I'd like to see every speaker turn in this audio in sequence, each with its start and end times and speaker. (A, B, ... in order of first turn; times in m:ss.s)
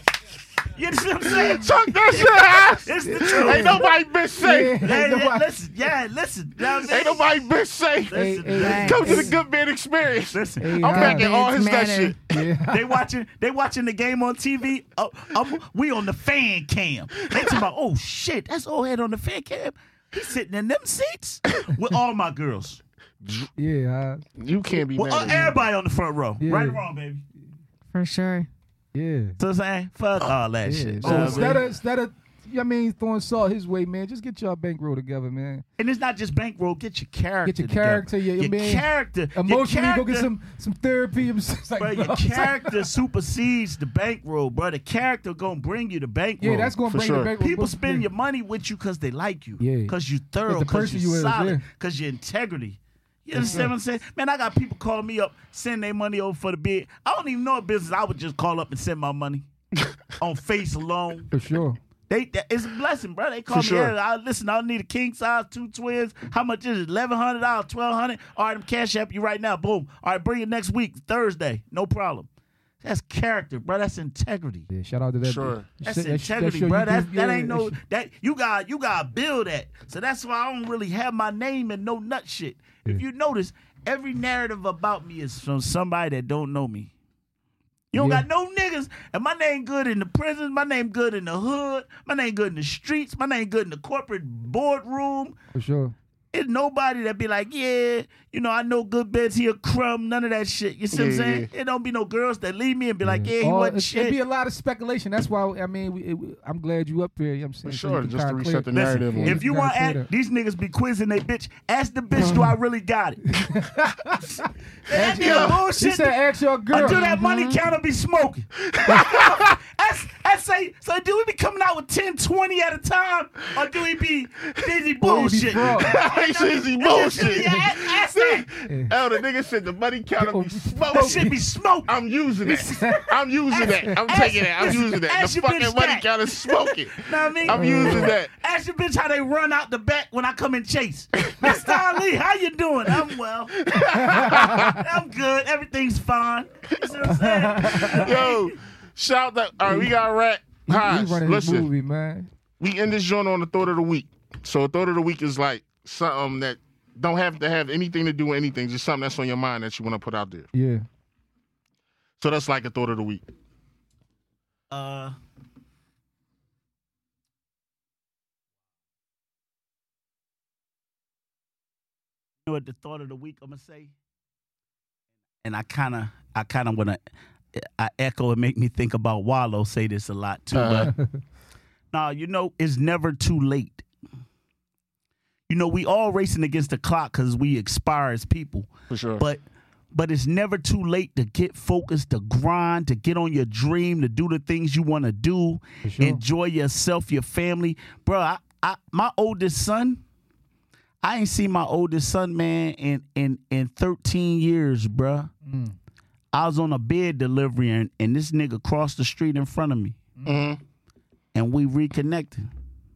0:00.7-0:03.8 A
0:01.4-0:04.8 B
0:03.0-0:03.8 C
0:04.4-0:05.5 C
0:04.8-0:07.4 A
0:06.8-0:12.5 B
0:08.1-0:09.3 A
0:08.1-0:09.4 C
0:08.6-0:09.2 D
0:10.3-0:10.8 A
0:10.6-0:11.3 C
0:10.9-0:12.1 D
0:12.3-0:12.9 C
0:12.7-0:22.8 A
0:17.3-0:17.6 B
0:23.2-0:23.5 B
0:23.6-0:24.2 C
0:24.4-0:25.5 B
0:25.0-0:27.2 A
0:26.4-0:26.8 C
0:27.9-0:28.5 D
0:28.9-0:29.4 C
0:29.4-0:31.6 A
0:30.6-0:35.6 C
0:31.0-0:31.6 B
0:35.8-0:40.3 A
0:37.4-0:42.8 C
0:41.8-0:46.8 A
0:46.4-0:48.1 C
0:46.8-0:47.3 B
0:47.4-0:59.4 A
0:49.6-0:49.9 C
0:50.5-0:51.6 C
0:53.3-0:53.7 C
1:00.2-1:01.3 A
1:01.3-1:01.8 C
1:02.1-1:12.3 A
1:03.5-1:03.9 B
1:12.8-1:14.7 A
1:14.7-1:17.8 C
1:15.2-1:15.7 B
1:15.8-1:26.9 A
1:27.9-1:35.3 A
1:28.0-1:28.2 C
1:35.5-1:36.0 C
1:36.3-1:44.2 A
1:40.9-1:41.5 B
1:43.0-1:50.1 C
1:47.6-1:49.4 B
1:48.7-1:53.2 A
1:52.2-1:52.5 C
1:53.3-1:57.1 C
1:54.9-1:56.2 A
1:55.0-1:55.6 B
1:56.7-2:08.5 A
1:56.8-1:57.6 D
1:58.7-1:59.6 B
2:05.0-2:06.0 C
2:05.6-2:11.3 B
2:08.6-2:08.9 C
2:10.2-2:11.4 C
2:10.9-2:11.9 A
2:11.9-2:18.3 B
2:12.5-2:13.0 C
2:12.8-2:28.6 A
2:17.5-2:18.1 C
2:21.2-2:21.8 B
2:23.7-2:24.8 B
2:23.9-2:24.8 C
2:27.0-2:28.1 C
2:27.8-2:31.7 B
2:29.7-2:29.9 C
2:30.7-2:32.3 C
2:32.6-2:40.5 B
2:40.5-2:40.8 C
2:42.2-2:43.2 B
2:44.7-2:45.1 A
2:52.4-2:53.9 A
2:55.4-2:57.0 A
2:57.6-3:00.9 A
3:00.5-3:00.9 B
3:00.9-3:01.2 C
3:01.9-3:03.8 A
3:05.5-3:08.7 A
3:08.9-3:09.2 B
3:09.9-3:20.0 A
3:15.8-3:16.2 C
3:21.0-3:25.3 A
3:25.4-3:25.8 C
3:26.3-3:30.0 A
3:30.2-3:30.4 C
3:30.3-3:30.6 B
3:31.3-3:32.5 A